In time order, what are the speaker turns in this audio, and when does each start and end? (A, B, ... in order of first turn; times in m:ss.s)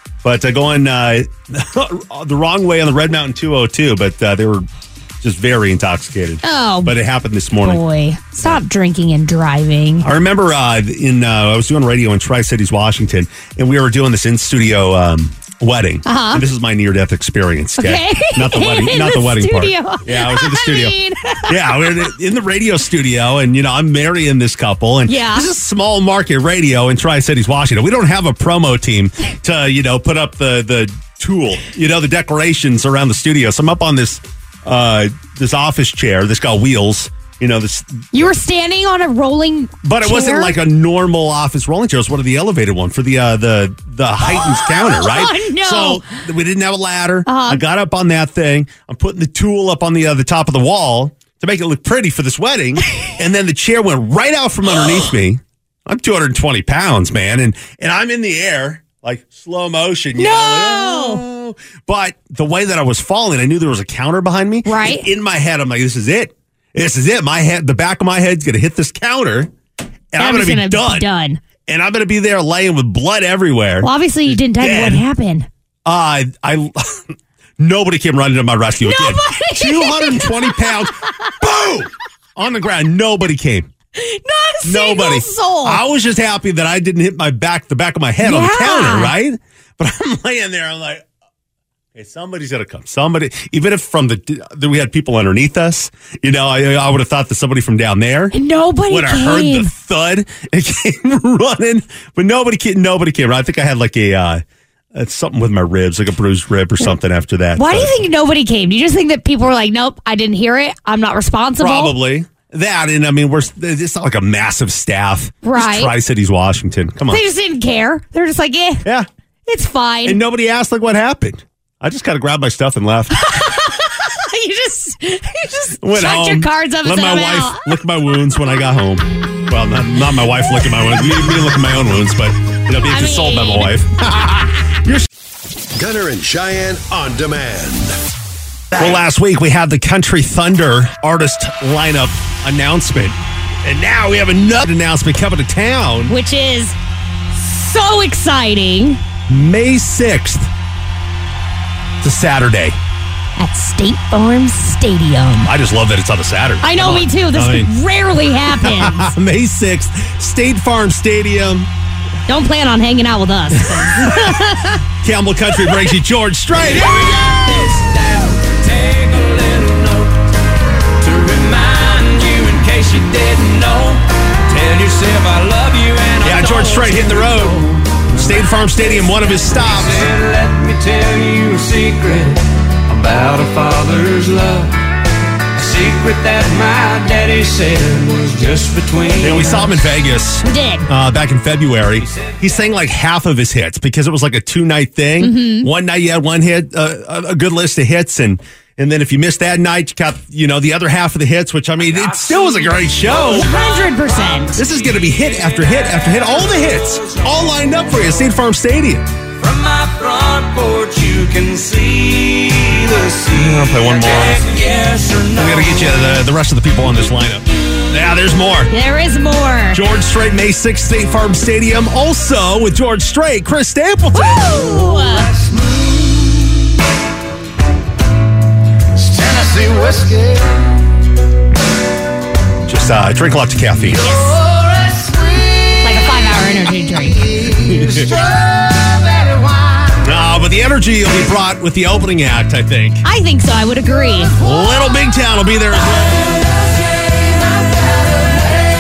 0:00.2-0:04.6 A
0:05.2-0:07.8 A
0:06.4-0:06.9 B
0:07.6-0:10.1 B
0:10.0-0:21.0 A
0:16.0-0:16.4 B
0:17.8-0:22.0 B
0:21.5-0:38.0 A
0:25.1-0:25.5 B
0:38.1-0:40.5 B
0:39.8-1:09.5 A
0:44.2-0:46.0 B
0:47.2-0:47.6 B
1:00.2-1:01.2 B
1:04.6-1:05.1 B
1:10.1-1:11.1 A
1:10.2-1:11.4 B
1:11.6-1:15.0 A
1:13.8-1:15.5 B
1:15.8-1:23.7 A
1:18.8-1:21.3 B
1:24.0-1:25.8 B
1:24.6-1:31.0 A
1:28.2-1:29.1 B
1:31.9-1:38.3 A
1:38.3-1:39.7 B
1:38.9-1:44.4 A
1:44.9-1:47.9 A
1:47.6-1:51.9 B
1:51.6-1:57.2 A
1:55.4-1:55.9 B
1:57.1-1:58.8 B
1:59.5-2:00.2 B
2:00.0-2:03.5 A
2:03.2-2:07.6 B
2:05.8-2:15.1 A
2:12.8-2:13.7 B
2:15.8-2:17.9 C
2:18.8-2:26.1 A
2:26.1-2:26.8 B
2:27.3-2:29.0 B
2:29.3-2:30.5 A
2:32.0-2:32.8 A
2:33.4-2:35.5 B
2:35.4-2:37.7 A
2:36.6-2:39.1 B
2:38.5-2:41.7 A
2:42.3-2:44.8 B
2:43.6-2:44.4 A
2:45.0-2:47.6 A
2:52.3-2:52.6 D
2:53.2-2:53.7 D
2:54.5-2:55.0 D
2:55.6-2:56.6 D
2:56.2-3:00.1 A
3:03.0-3:04.4 D
3:05.6-3:06.6 D
3:07.1-3:07.4 D
3:08.2-3:09.6 D
3:09.2-3:23.5 A
3:10.4-3:10.9 B
3:15.2-3:15.7 B
3:23.2-3:24.6 B
3:24.5-3:29.1 A
3:29.5-3:31.5 D
3:32.1-3:33.0 D
3:33.3-3:34.6 A
3:34.7-3:35.3 D
3:35.3-3:38.7 A
3:38.7-3:39.8 B
3:39.7-3:45.1 A
3:44.1-3:45.3 B
3:49.2-3:50.2 D
3:52.6-3:54.1 A
3:54.0-3:54.3 B
3:55.8-3:57.2 B
3:57.5-3:58.1 A
4:00.0-4:03.0 A
4:03.0-4:04.4 B
4:04.4-4:06.5 A